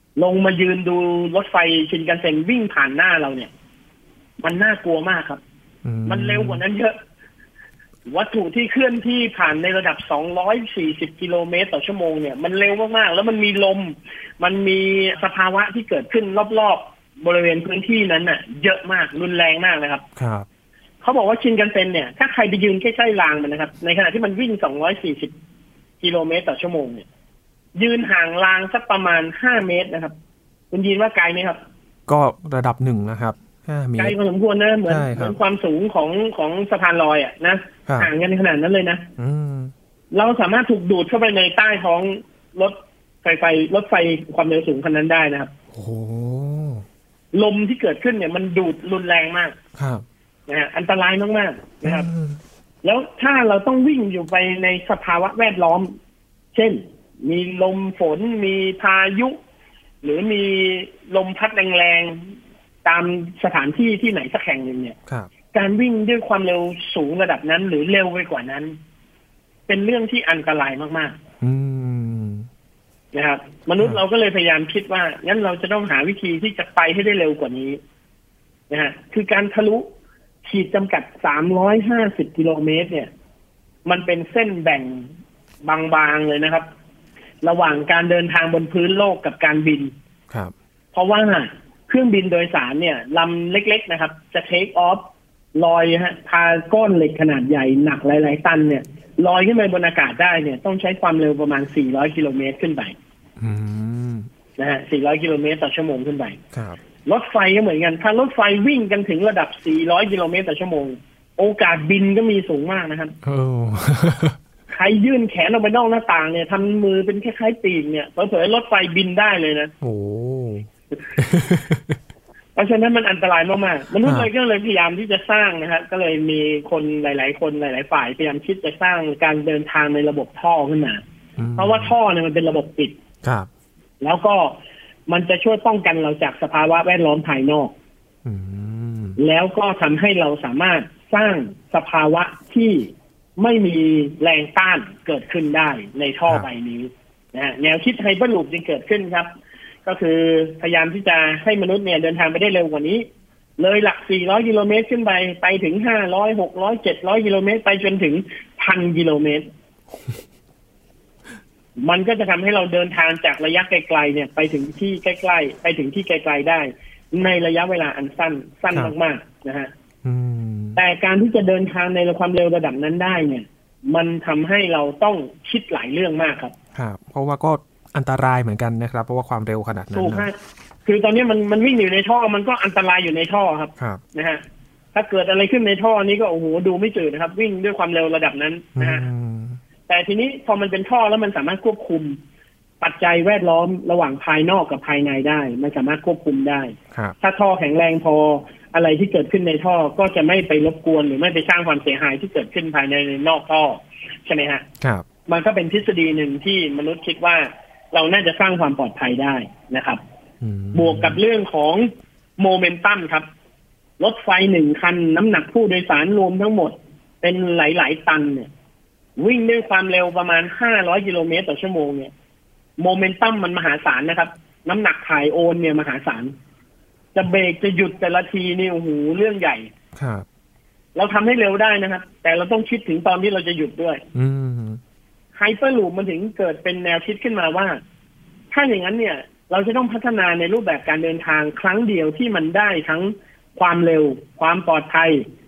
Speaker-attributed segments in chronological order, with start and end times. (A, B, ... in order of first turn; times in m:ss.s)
0:00.2-0:03.5 A
0:04.4-0:05.4 A
0:05.8-0:06.6 B
0:06.0-0:07.0 A
0:08.0-0:20.0 A
0:20.2-0:20.5 B
0:21.0-0:25.3 A
0:26.0-0:27.0 A
0:27.8-0:30.1 A
0:30.7-0:31.6 A
0:32.1-0:34.2 B
0:34.0-0:39.1 A
0:34.9-0:35.4 B
0:39.2-0:39.7 B
0:40.1-0:45.5 A
0:45.7-0:46.8 B
0:47.3-0:49.6 A
0:49.8-0:50.0 B
0:50.5-0:52.1 A
0:51.8-0:52.4 B
0:52.8-0:55.9 A
0:56.5-0:59.4 A
1:00.0-1:02.3 A
1:02.8-1:05.0 A
1:05.5-1:08.8 A
1:09.7-1:11.2 A
1:11.4-1:12.5 B
1:13.1-1:17.8 A
1:18.7-1:19.9 A
1:20.4-1:23.1 A
1:23.8-1:25.1 A
1:25.6-1:26.6 A
1:27.4-1:29.9 A
1:30.9-1:35.0 A
1:35.5-1:42.9 A
1:43.4-1:44.3 B
1:44.6-1:46.4 A
1:46.5-1:46.8 B
1:47.0-1:53.1 A
1:53.2-1:54.4 B
1:54.7-1:59.7 A
1:59.8-2:02.0 B
2:02.6-2:11.0 A
2:04.0-2:04.3 B
2:11.4-2:11.9 B
2:11.6-2:12.9 A
2:14.0-2:14.6 A
2:15.1-2:17.7 A
2:18.2-2:19.2 B
2:19.2-2:29.3 A
2:29.8-2:33.0 A
2:33.6-2:39.5 A
2:41.8-2:49.7 A
2:50.0-2:50.8 B
2:50.8-2:56.5 A
2:56.7-3:00.3 B
2:59.9-3:04.4 A
3:04.9-3:09.0 A
3:08.8-3:09.6 B
3:09.9-3:12.2 A
3:12.8-3:24.6 A
3:24.8-3:25.0 B
3:25.3-3:30.0 A
3:30.4-3:31.2 B
3:30.7-3:33.2 A
3:34.0-3:38.5 A
3:39.2-3:42.1 A
3:42.8-3:46.3 A
3:47.1-3:49.7 A
3:50.0-3:50.2 B
3:50.9-3:54.0 A
3:54.1-3:54.8 B
3:55.4-3:57.8 A
3:58.5-4:05.2 A